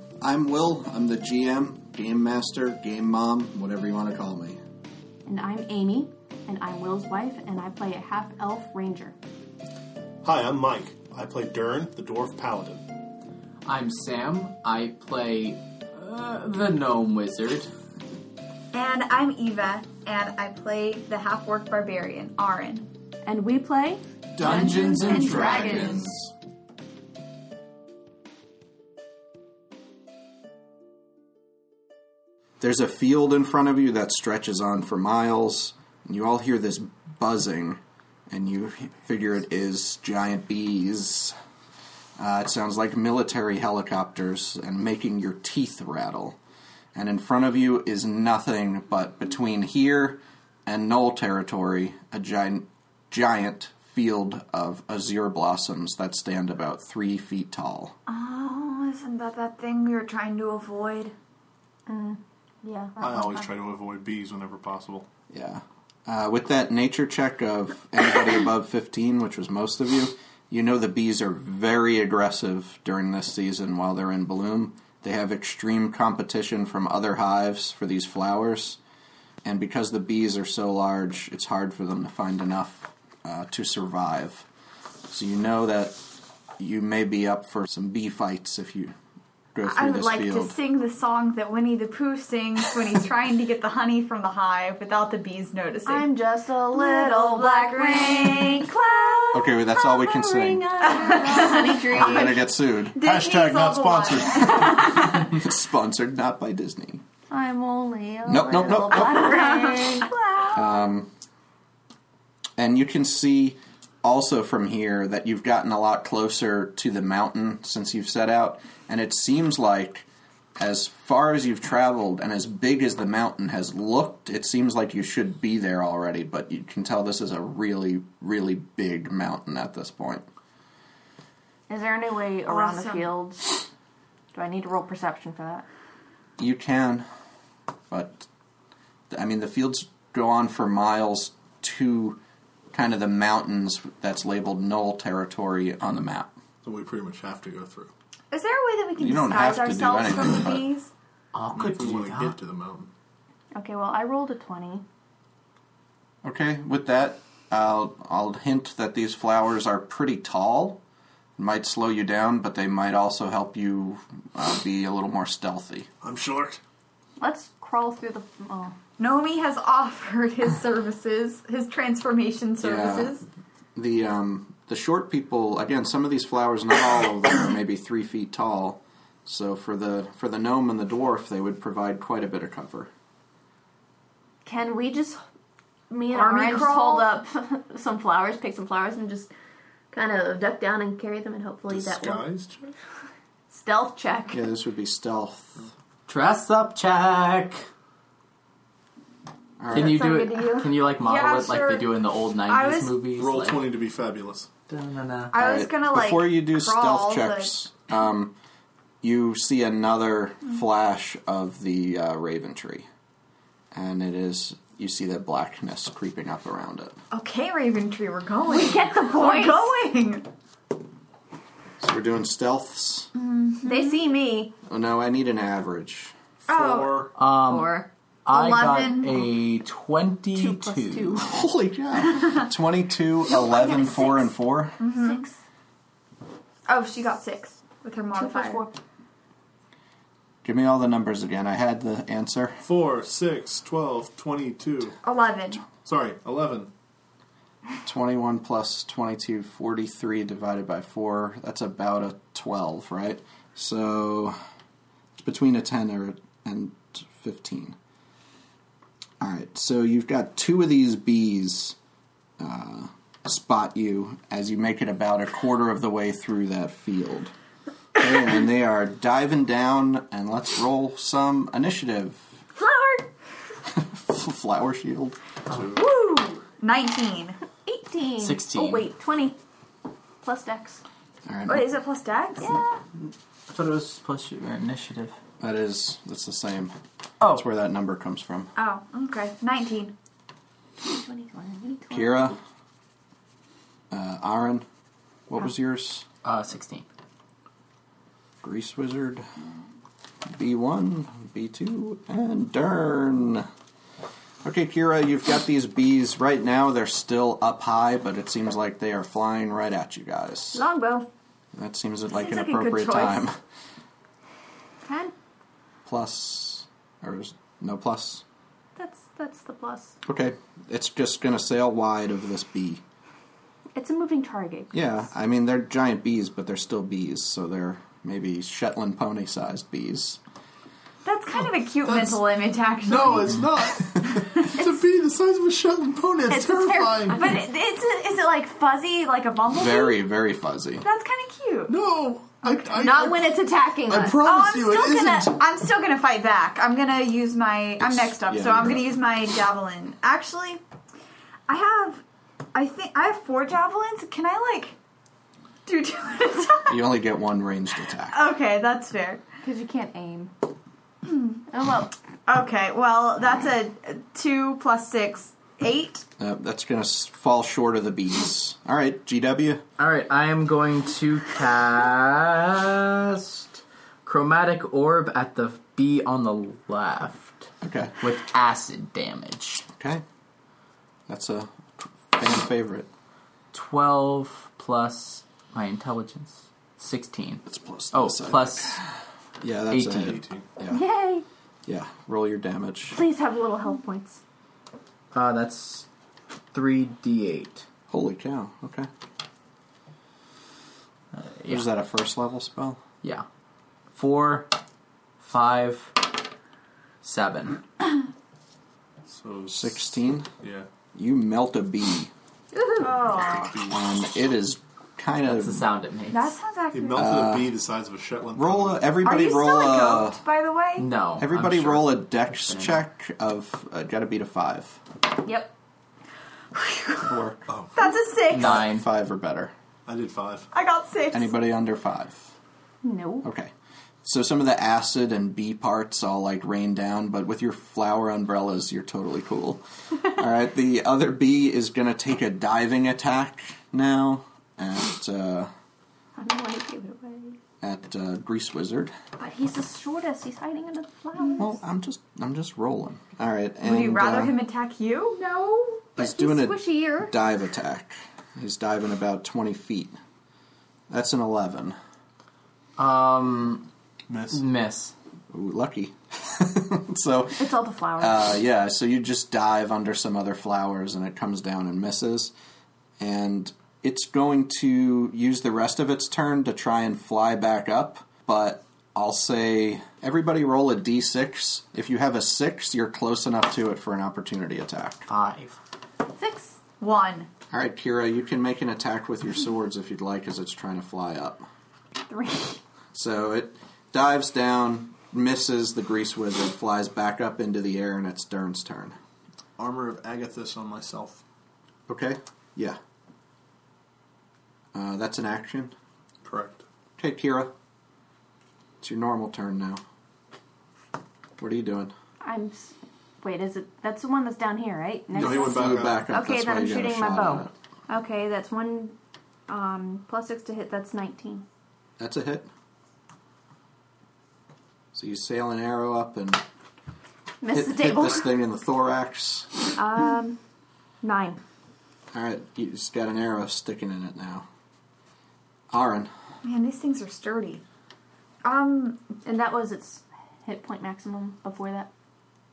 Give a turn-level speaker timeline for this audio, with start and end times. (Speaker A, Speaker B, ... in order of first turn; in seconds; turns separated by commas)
Speaker A: 0.2-4.6, Speaker B: 5.2-9.2, Speaker C: 10.2-12.8, Speaker D: 13.7-17.7, Speaker E: 18.7-22.9, Speaker B: 23.2-26.1, Speaker A: 24.3-26.3, Speaker E: 24.4-26.0, Speaker A: 32.6-41.3, Speaker A: 42.2-46.4, Speaker A: 46.9-58.0, Speaker E: 58.1-61.1, Speaker B: 61.9-62.9, Speaker C: 63.0-65.0, Speaker E: 63.0-63.5, Speaker A: 65.3-78.8, Speaker A: 79.4-84.5, Speaker A: 85.1-86.0, Speaker A: 86.6-89.0, Speaker A: 89.5-90.5, Speaker E: 89.6-96.1, Speaker B: 95.8-102.4, Speaker E: 96.7-98.7, Speaker A: 99.3-100.7, Speaker E: 100.8-102.4, Speaker A: 101.9-103.0, Speaker E: 102.9-105.4, Speaker C: 103.0-105.0, Speaker A: 104.4-107.0, Speaker B: 107.3-110.6, Speaker A: 108.2-109.4, Speaker E: 108.9-110.6, Speaker A: 110.5-111.1, Speaker A: 112.6-120.0, Speaker A: 120.6-130.3, Speaker B: 131.7-133.7, Speaker E: 132.5-133.1, Speaker B: 134.3-135.6, Speaker A: 136.4-137.1, Speaker A: 137.9-138.3, Speaker A: 139.1-142.2, Speaker A: 142.7-146.3, Speaker C: 146.6-147.9, Speaker E: 148.3-150.9, Speaker A: 149.0-150.6, Speaker D: 151.3-152.3, Speaker C: 151.5-152.9, Speaker B: 153.5-154.8, Speaker A: 156.2-160.8, Speaker A: 161.4-165.9, Speaker C: 166.0-166.6, Speaker B: 167.2-168.7, Speaker E: 169.0-173.2, Speaker A: 172.6-173.1, Speaker A: 173.7-182.9, Speaker B: 184.4-185.2, Speaker B: 185.9-189.3, Speaker E: 186.1-187.1, Speaker B: 189.9-192.2, Speaker C: 191.7-192.7, Speaker B: 193.5-194.4, Speaker A: 194.3-195.7, Speaker D: 196.1-197.6, Speaker A: 199.6-200.0, Speaker D: 199.7-203.7, Speaker B: 199.7-200.7, Speaker E: 201.0-201.9, Speaker E: 202.5-203.0, Speaker C: 203.1-204.5, Speaker D: 204.7-205.3, Speaker E: 205.3-207.5, Speaker A: 205.4-208.3, Speaker A: 209.0-212.9, Speaker A: 213.7-217.0, Speaker E: 217.1-220.3, Speaker B: 218.5-219.7, Speaker A: 221.8-223.1, Speaker E: 223.1-224.0, Speaker B: 223.6-224.5, Speaker A: 224.7-226.1, Speaker C: 226.4-227.1, Speaker E: 226.5-227.1, Speaker D: 227.2-227.7, Speaker B: 227.5-227.9, Speaker D: 228.2-231.2, Speaker E: 228.3-229.3, Speaker B: 230.3-231.3, Speaker A: 231.2-234.8, Speaker B: 233.3-234.2, Speaker E: 233.3-234.2, Speaker E: 234.8-235.2, Speaker B: 234.8-235.4, Speaker E: 236.7-238.6, Speaker B: 238.1-238.8, Speaker A: 240.4-242.6, Speaker C: 242.6-244.9, Speaker E: 245.0-245.7, Speaker C: 245.8-246.7, Speaker A: 247.8-254.3, Speaker A: 255.2-257.8, Speaker A: 259.2-261.8, Speaker A: 262.4-267.3, Speaker A: 267.9-272.2, Speaker B: 272.6-273.1, Speaker A: 273.7-275.2, Speaker E: 275.6-277.4, Speaker B: 277.6-279.4, Speaker D: 278.2-278.9, Speaker B: 280.2-280.8, Speaker A: 281.2-281.7, Speaker E: 281.5-282.5, Speaker B: 282.4-282.8, Speaker D: 283.5-285.1, Speaker A: 285.4-286.7, Speaker A: 287.3-288.5, Speaker E: 288.6-289.9, Speaker B: 290.8-292.4, Speaker A: 291.9-292.4, Speaker A: 293.9-294.6, Speaker A: 295.3-296.0, Speaker D: 296.2-296.9, Speaker A: 298.4-299.2, Speaker A: 300.3-303.5, Speaker A: 304.4-310.6, Speaker B: 310.5-311.1, Speaker A: 311.5-313.4, Speaker B: 312.1-313.2, Speaker B: 314.8-315.1, Speaker A: 315.8-318.2, Speaker B: 318.8-319.9, Speaker A: 320.0-322.8, Speaker B: 323.7-324.9, Speaker A: 324.7-330.2, Speaker E: 331.0-333.4, Speaker C: 331.8-332.2, Speaker C: 332.8-337.4, Speaker E: 334.0-334.6, Speaker B: 336.4-337.3, Speaker E: 336.6-340.0, Speaker A: 339.5-340.8, Speaker E: 340.8-341.7, Speaker C: 341.7-343.3, Speaker B: 342.8-344.2, Speaker C: 343.9-345.4, Speaker E: 344.2-350.6, Speaker A: 347.8-348.9, Speaker E: 351.5-352.0, Speaker E: 352.5-354.7, Speaker E: 355.6-356.8, Speaker A: 356.7-358.2, Speaker E: 358.1-359.2, Speaker B: 359.4-360.3, Speaker E: 361.1-361.4, Speaker B: 361.5-361.9, Speaker E: 362.3-366.0, Speaker A: 366.2-369.6, Speaker D: 369.8-377.5, Speaker A: 377.6-377.9, Speaker D: 378.0-379.6, Speaker A: 379.7-380.0, Speaker A: 381.1-382.9, Speaker D: 383.5-388.8, Speaker A: 387.5-388.8, Speaker A: 389.4-390.8, Speaker D: 389.7-390.2, Speaker C: 389.8-390.4, Speaker B: 390.7-391.2, Speaker A: 391.6-393.0, Speaker B: 392.9-394.2, Speaker D: 395.1-395.9, Speaker D: 396.5-397.6, Speaker A: 397.9-398.9, Speaker D: 401.1-401.7, Speaker A: 401.5-402.8, Speaker D: 403.9-404.5, Speaker D: 405.2-406.1, Speaker D: 407.0-407.6, Speaker C: 409.1-410.6, Speaker A: 409.5-410.3, Speaker A: 410.9-412.1, Speaker B: 412.5-412.9, Speaker E: 412.8-413.6, Speaker C: 412.9-413.8, Speaker A: 413.7-415.6, Speaker D: 415.3-416.3, Speaker E: 416.1-417.2, Speaker C: 416.7-419.0, Speaker A: 416.9-417.5, Speaker A: 418.3-420.2, Speaker E: 419.0-420.9, Speaker D: 420.8-422.8, Speaker A: 421.2-424.8, Speaker B: 425.2-425.5, Speaker E: 426.5-427.1, Speaker A: 427.0-427.4, Speaker C: 427.5-427.8, Speaker E: 427.8-428.6, Speaker D: 428.3-428.9, Speaker A: 428.3-429.5, Speaker C: 429.9-430.5, Speaker E: 430.5-431.3, Speaker A: 431.1-432.3, Speaker B: 432.8-433.3, Speaker A: 433.2-433.5, Speaker A: 434.0-445.5, Speaker B: 446.2-447.4, Speaker A: 447.6-448.9, Speaker B: 449.2-451.6, Speaker A: 451.4-454.3, Speaker E: 453.6-455.2, Speaker B: 455.2-457.1, Speaker A: 455.9-460.0, Speaker A: 460.9-461.8, Speaker D: 462.8-463.7, Speaker C: 464.1-464.4, Speaker D: 464.3-464.9, Speaker A: 465.3-467.5, Speaker B: 467.4-468.3, Speaker A: 468.0-472.3, Speaker A: 473.0-485.1, Speaker D: 485.1-485.6, Speaker B: 486.2-486.5, Speaker E: 486.8-487.3, Speaker A: 487.5-491.4, Speaker B: 492.1-492.6, Speaker A: 492.9-498.9, Speaker C: 499.6-501.2, Speaker A: 501.9-502.8, Speaker A: 504.7-505.7, Speaker C: 506.2-506.6, Speaker A: 507.0-507.5, Speaker A: 508.8-509.8, Speaker A: 511.4-511.9, Speaker B: 512.2-518.9, Speaker C: 515.1-516.1, Speaker A: 515.1-517.5, Speaker B: 519.5-521.4, Speaker A: 522.0-522.5, Speaker A: 524.9-526.4, Speaker B: 527.4-528.3, Speaker A: 527.5-529.5, Speaker B: 529.8-530.4, Speaker B: 531.0-531.4, Speaker A: 532.1-534.5, Speaker A: 535.7-536.1, Speaker E: 536.4-537.6, Speaker E: 538.4-539.2, Speaker B: 539.2-541.9